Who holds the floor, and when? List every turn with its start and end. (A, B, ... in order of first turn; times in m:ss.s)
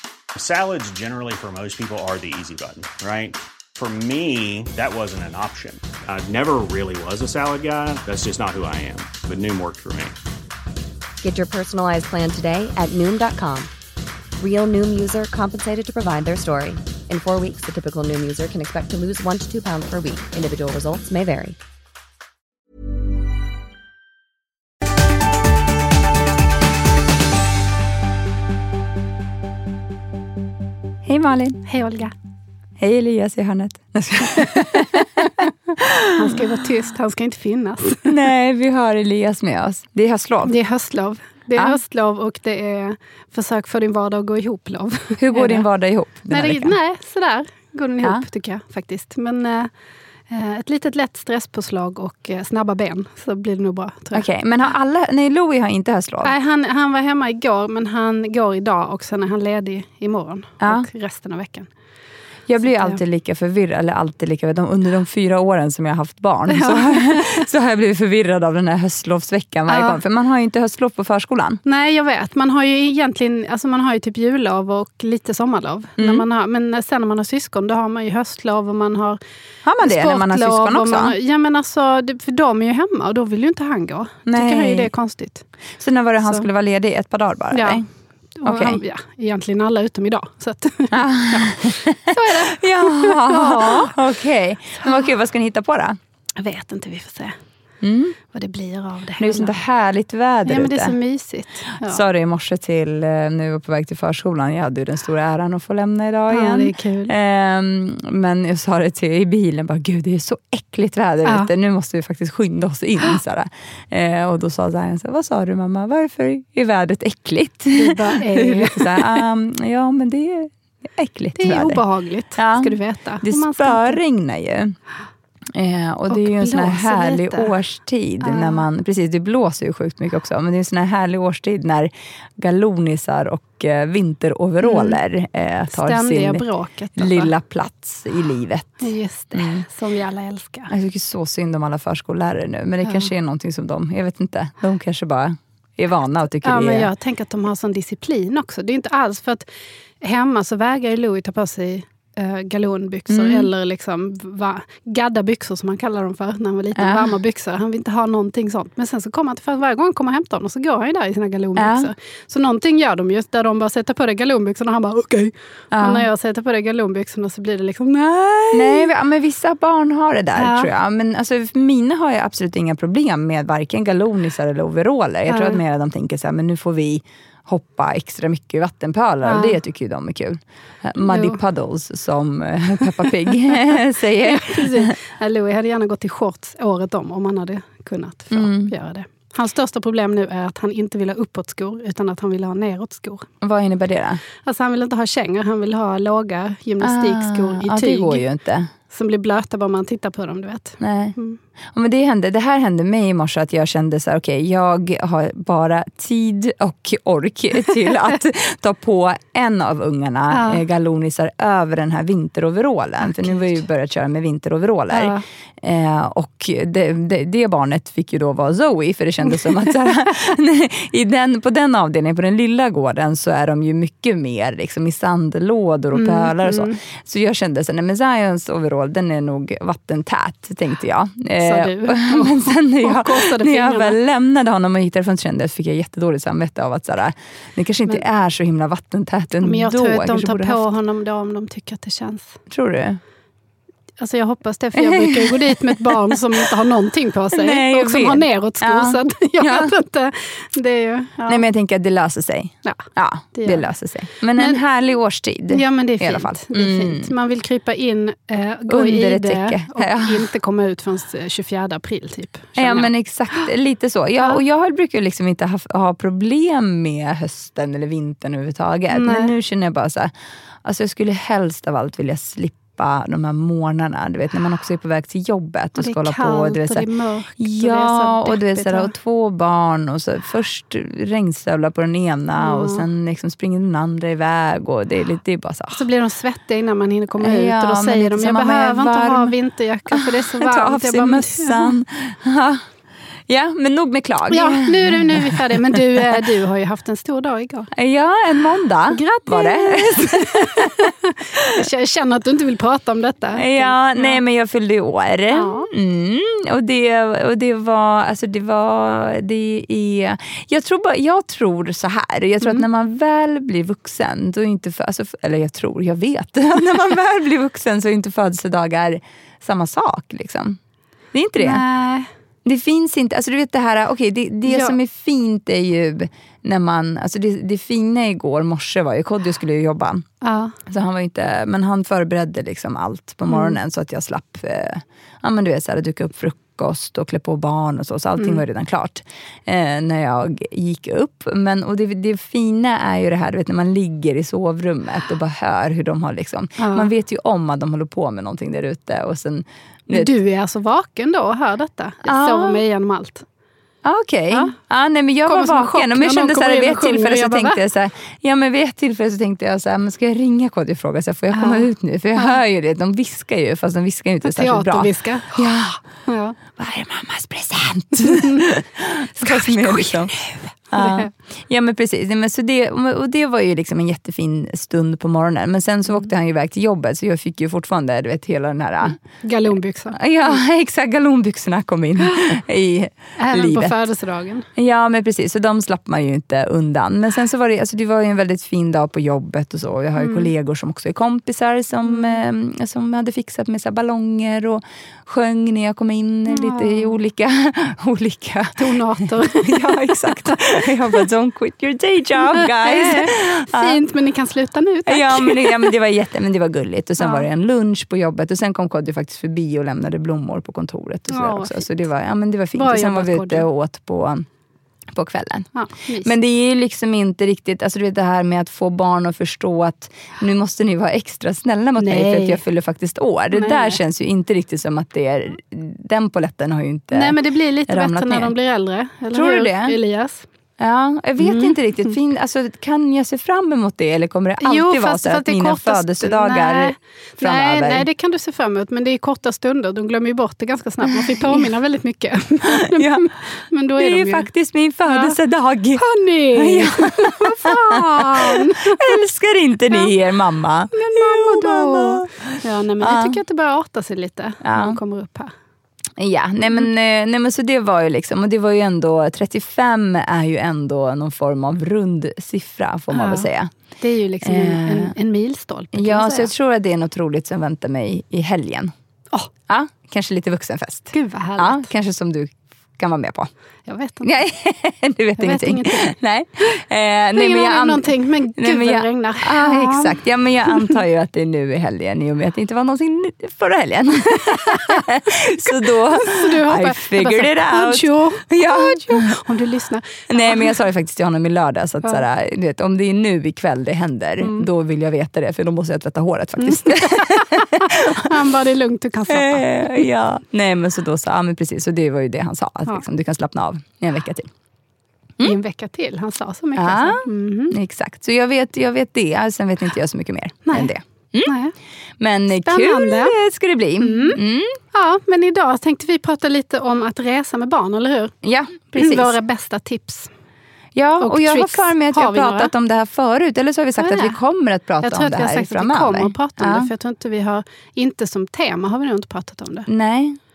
0:00.3-0:10.2 A
0:11.2-0:13.7 B
0:14.4-0:21.6 B
0:31.0-0:31.6 C
0:31.6-0:32.1 D
0:32.8-0:36.4 C
0:34.4-0:35.3 D
0:36.1-0:38.1 D
0:38.0-0:40.5 C
0:40.4-0:45.6 D
0:45.2-0:46.7 C
0:46.3-0:49.7 D
0:50.3-0:54.2 D
0:54.1-0:56.3 C
0:56.2-1:01.7 D
1:02.5-1:11.6 C
1:02.6-1:03.0 D
1:06.5-1:07.4 D
1:09.7-1:10.0 D
1:11.6-1:19.2 D
1:16.0-1:16.2 C
1:19.6-1:21.1 C
1:19.8-1:25.5 D
1:24.2-1:24.9 C
1:25.8-1:27.8 C
1:27.5-1:27.8 D
1:28.4-1:34.0 D
1:28.4-1:28.8 C
1:30.9-1:36.0 C
1:36.4-1:37.4 D
1:37.8-1:38.2 C
1:38.3-1:39.6 D
1:39.2-1:40.9 C
1:40.4-1:42.0 D
1:41.8-2:01.8 C
1:46.3-1:47.1 D
1:51.2-1:51.5 D
1:57.7-1:59.2 D
2:01.3-2:04.0 D
2:02.4-2:04.7 C
2:05.5-2:16.4 C
2:06.1-2:07.5 D
2:08.2-2:08.6 D
2:14.6-2:15.0 D
2:15.7-2:17.3 D
2:17.0-2:19.6 C
2:18.8-2:20.7 D
2:20.7-2:26.9 C
2:22.8-2:23.1 D
2:26.4-2:29.5 D
2:30.0-2:48.9 D
2:33.1-2:33.5 C
2:36.8-2:37.1 C
2:41.6-2:41.9 C
2:45.7-2:46.0 C
2:48.5-3:04.9 C
2:50.3-2:50.7 D
2:55.3-2:55.6 D
2:59.2-2:59.6 D
3:01.0-3:01.4 D
3:04.2-3:13.3 D
3:08.3-3:08.7 C
3:13.4-3:14.2 C
3:14.4-3:18.2 D
3:16.8-3:18.7 C
3:18.9-3:21.4 D
3:20.8-3:21.1 C
3:21.7-4:00.7 C
3:30.3-3:30.6 D
3:33.0-3:33.6 D
3:34.9-3:35.2 D
3:39.3-3:39.7 D
3:45.9-3:46.8 D
3:51.4-3:54.0 D
3:59.4-4:02.4 D
4:02.5-4:03.0 C
4:04.0-4:11.4 D
4:04.7-4:05.3 C
4:07.3-4:09.7 C
4:11.3-4:17.1 C
4:12.6-4:13.7 D
4:15.5-4:23.5 D
4:18.7-4:20.2 C
4:22.6-4:30.1 C
4:28.9-4:29.3 D
4:30.6-4:36.8 C
4:35.8-4:38.9 D
4:37.4-4:45.8 C
4:42.4-4:42.8 D
4:45.7-4:51.7 D
4:47.2-4:49.3 C
4:49.9-4:52.6 C
4:53.3-4:55.8 C
4:54.3-4:57.7 D
4:57.7-5:01.6 C
4:58.9-5:04.2 D
5:03.4-5:20.6 C
5:05.3-5:05.7 D
5:21.1-5:21.6 C
5:21.4-5:22.1 D
5:22.4-5:30.0 C
5:24.4-5:24.7 D
5:30.2-5:30.6 D
5:30.6-5:50.1 C
5:33.3-5:33.6 D
5:38.2-5:38.4 D
5:46.6-5:46.9 D
5:49.9-5:53.2 D
5:52.0-5:52.6 C
5:53.8-6:05.8 C
5:55.2-5:57.6 D
6:01.3-6:01.7 D
6:04.2-6:05.5 D
6:06.0-6:06.4 D
6:06.5-6:19.0 C
6:08.0-6:08.4 D
6:09.2-6:11.1 D
6:19.2-6:20.4 D
6:19.9-6:23.8 C
6:23.2-6:24.5 D
6:24.6-6:38.6 C
6:30.0-6:30.3 D
6:31.8-6:32.2 D
6:36.2-6:36.9 D
6:38.6-6:41.0 D
6:39.2-6:43.8 C
6:42.3-6:45.7 D
6:44.9-6:54.3 C
6:47.0-6:47.2 D
6:51.1-6:51.8 D
6:52.5-6:53.4 D
6:54.9-6:55.5 C
6:55.5-6:56.1 D
6:56.0-7:08.3 C
7:01.8-7:02.4 D
7:03.3-7:03.8 D
7:06.9-7:10.2 D
7:09.1-7:09.8 C
7:10.6-7:17.8 C
7:11.2-7:11.9 D
7:14.4-7:24.3 D
7:20.9-7:21.4 C
7:22.6-7:23.0 C
7:23.8-7:25.8 C
7:24.9-7:25.2 D
7:25.8-7:29.0 D
7:26.3-7:33.2 C
7:30.7-7:35.3 D
7:34.4-7:34.8 C
7:36.0-7:43.5 C
7:42.9-7:46.3 D
7:44.2-7:44.9 C
7:45.7-7:48.7 C
7:49.5-7:53.3 C
7:50.9-7:51.7 D
7:53.6-7:54.2 D
7:54.0-8:09.2 C
7:55.2-7:56.0 D
7:57.1-8:00.8 D
8:04.2-8:10.6 D
8:10.1-8:18.1 C
8:14.2-8:14.5 D
8:16.4-8:19.9 D
8:19.1-8:24.3 C
8:25.2-8:27.6 D
8:26.6-8:31.3 C
8:31.2-8:31.5 D
8:32.0-8:34.6 C
8:32.4-8:33.2 D
8:33.8-8:34.2 D
8:34.7-8:38.1 D
8:38.2-8:39.1 C
8:38.8-8:40.1 D
8:40.7-8:46.7 C
8:41.0-8:42.5 D
8:43.8-8:44.2 D
8:44.8-8:49.7 D
8:49.7-8:50.2 C